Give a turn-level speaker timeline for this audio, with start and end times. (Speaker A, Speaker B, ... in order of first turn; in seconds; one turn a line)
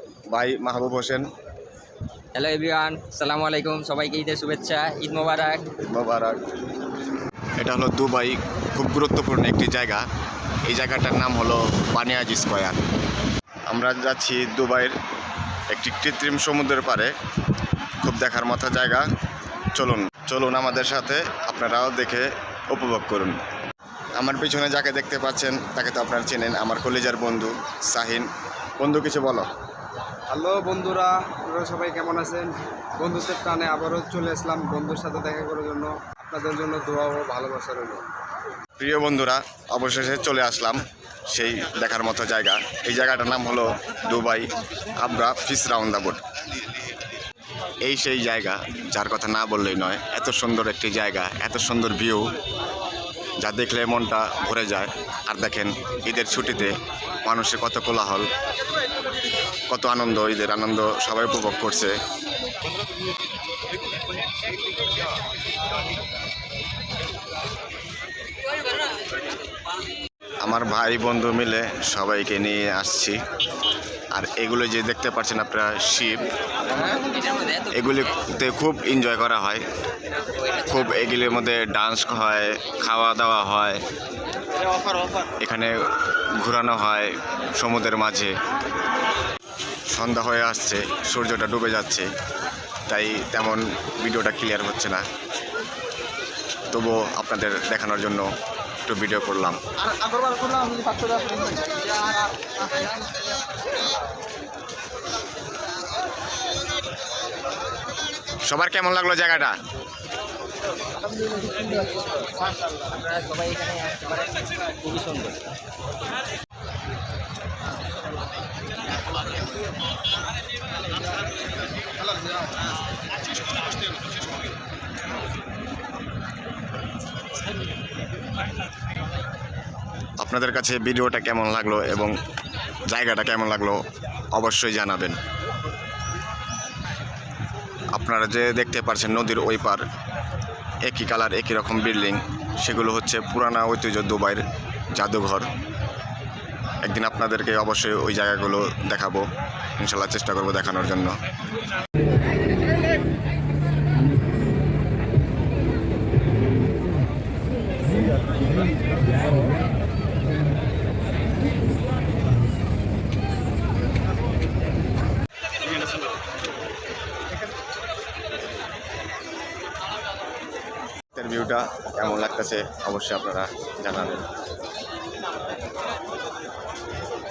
Speaker A: 0.3-1.2
Speaker B: 2.3-5.7
Speaker A: 5.9-6.4
Speaker A: 7.6-10.1
Speaker A: 10.7-12.8
Speaker A: 13.7-14.9
Speaker A: 15.7-17.1
Speaker A: 18.0-19.1
Speaker A: 19.8-23.4
Speaker A: 24.2-28.3
Speaker A: 28.8-29.5
Speaker C: 30.3-38.0
Speaker A: 38.8-40.8
Speaker A: 41.3-46.2
Speaker A: 47.8-52.3
Speaker A: 53.4-56.7
Speaker A: 57.2-58.3
Speaker A: 59.7-62.0
Speaker A: 70.4-73.2
Speaker A: 74.1-76.3
Speaker B: 76.7-78.1
Speaker A: 77.7-79.6
Speaker B: 80.4-80.9
Speaker A: 80.7-83.8
Speaker A: 85.4-85.7
Speaker A: 86.4-88.3
Speaker A: 89.9-92.1
Speaker A: 92.9-95.0
Speaker A: 96.7-98.3
Speaker A: 98.9-99.6
Speaker A: 108.5-109.6
Speaker B: 111.0-115.3
Speaker A: 130.2-132.2
Speaker A: 132.9-133.8
Speaker A: 134.3-135.2
Speaker A: 137.9-139.8
Speaker A: 140.8-144.4
Speaker A: 144.9-145.5
Speaker A: 146.8-149.2
Speaker A: 149.8-151.1
Speaker A: 171.2-174.2